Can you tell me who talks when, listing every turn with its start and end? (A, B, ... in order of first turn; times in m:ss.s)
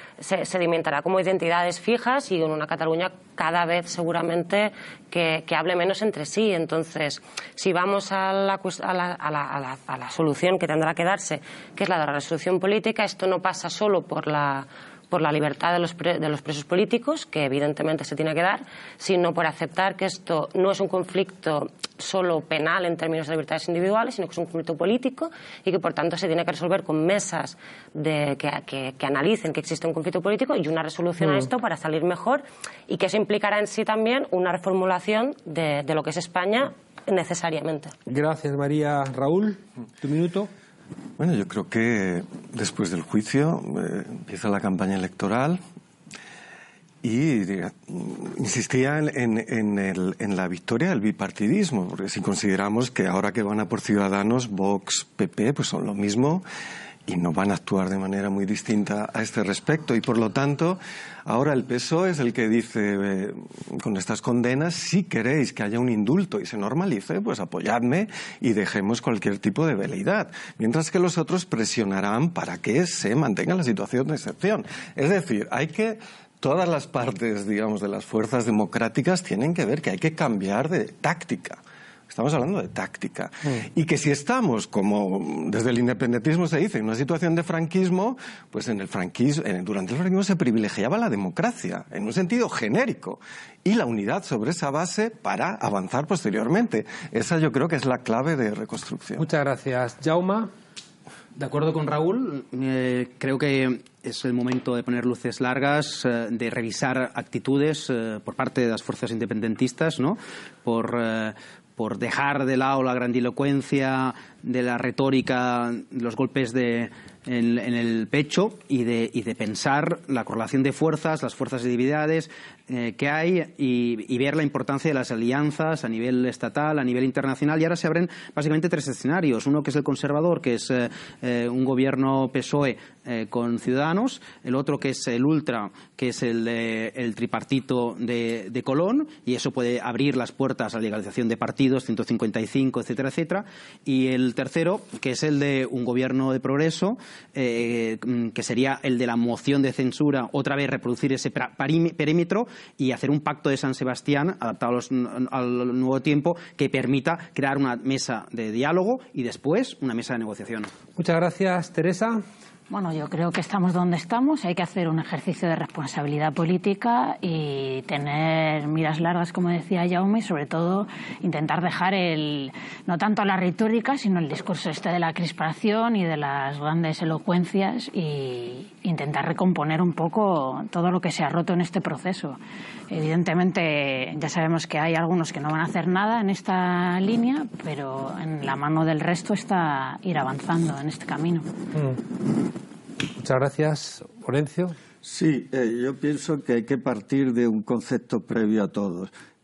0:00.2-0:37.9 A
0:31.2-0:31.5 B
0:38.1-0:40.5 B
0:41.2-0:45.6 C
0:47.0-0:56.4 C
0:57.1-1:39.3 C
1:39.2-1:40.5 B
1:41.4-2:40.7 D
2:41.0-2:42.2 B
2:42.7-3:02.4 E
3:02.9-3:11.5 E
3:11.7-3:12.0 B
3:13.2-3:14.7 B
3:15.0-3:19.1 F